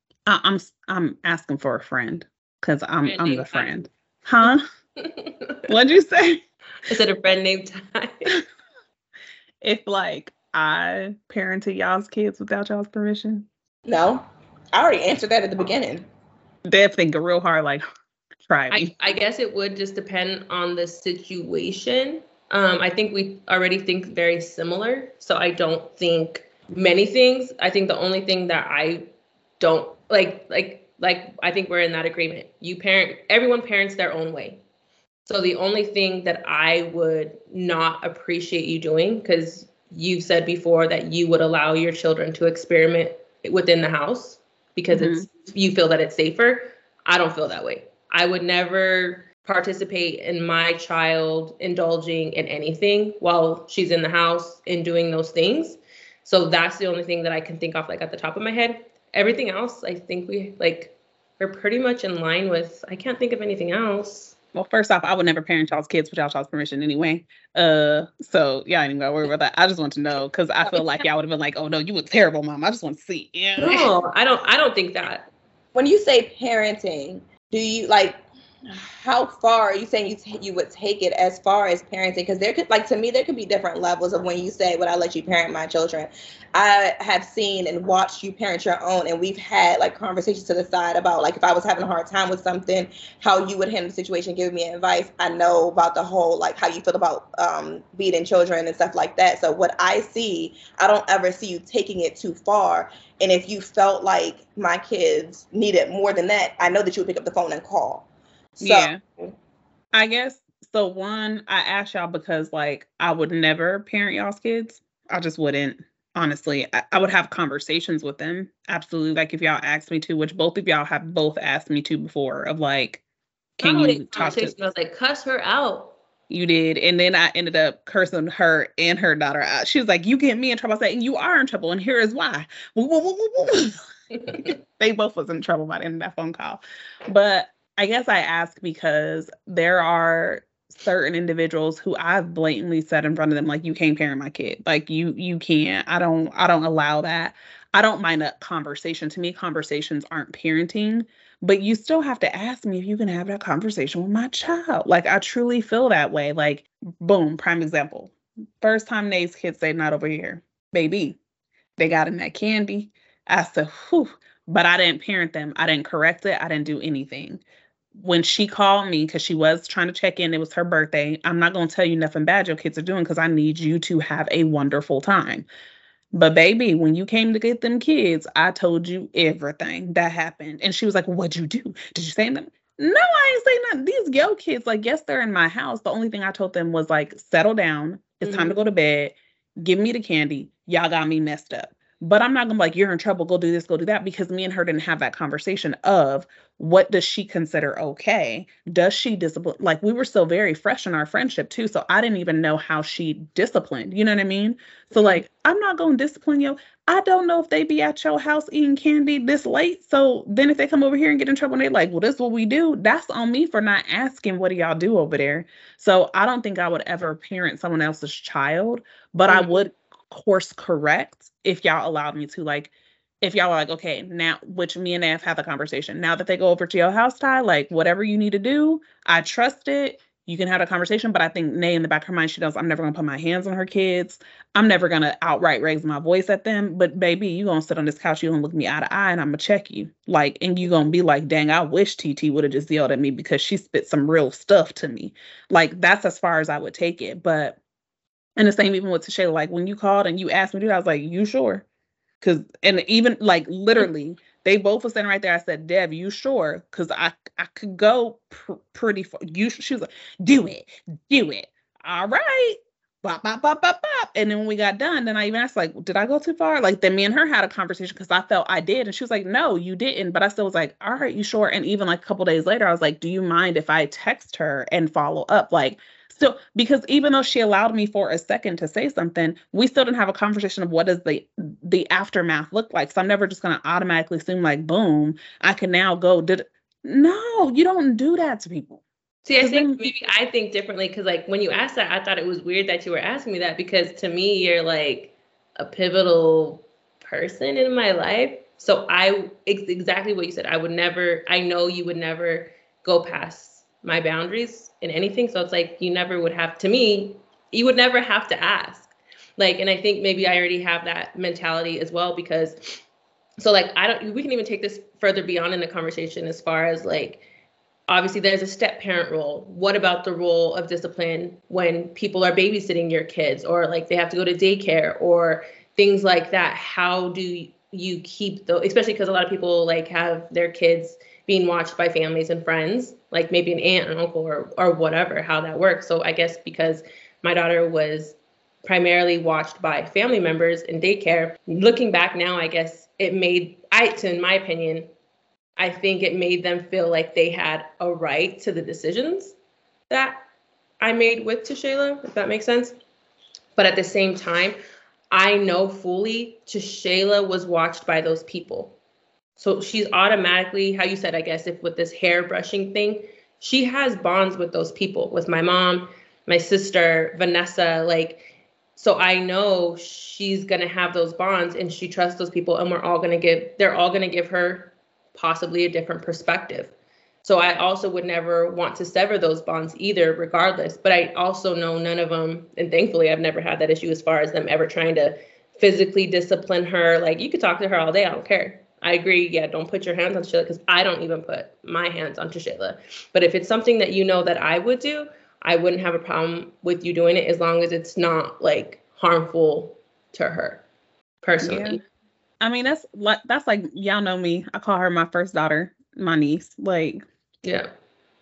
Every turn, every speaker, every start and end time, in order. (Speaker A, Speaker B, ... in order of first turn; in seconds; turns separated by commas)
Speaker A: 0.3-4.6, Speaker B: 3.0-3.7, Speaker B: 4.5-5.7, Speaker A: 5.7-6.4, Speaker B: 6.8-8.3, Speaker A: 9.6-13.4, Speaker C: 13.8-16.1, Speaker A: 16.7-17.8, Speaker A: 18.5-18.9, Speaker B: 18.7-29.0, Speaker B: 29.6-34.6, Speaker B: 35.3-64.3, Speaker A: 44.9-45.3, Speaker A: 64.5-73.9, Speaker B: 73.6-75.3, Speaker C: 75.7-109.3, Speaker A: 108.6-109.0, Speaker A: 109.9-123.0, Speaker A: 123.6-124.5, Speaker B: 123.6-125.9, Speaker A: 126.3-133.8, Speaker B: 134.1-134.5, Speaker A: 134.3-161.2, Speaker A: 161.8-167.4, Speaker A: 167.9-175.4, Speaker A: 176.1-247.6, Speaker B: 188.2-188.6, Speaker A: 248.4-251.7, Speaker A: 252.2-288.8, Speaker B: 289.2-312.8, Speaker A: 289.4-289.9, Speaker B: 313.4-317.2, Speaker B: 317.9-344.9, Speaker B: 345.6-349.3, Speaker B: 349.9-350.2, Speaker B: 350.8-352.8, Speaker B: 353.6-354.6, Speaker B: 355.1-358.8, Speaker B: 359.4-376.7, Speaker B: 377.2-400.6, Speaker B: 401.2-401.8, Speaker A: 401.4-401.8, Speaker A: 402.4-407.0, Speaker B: 407.4-407.7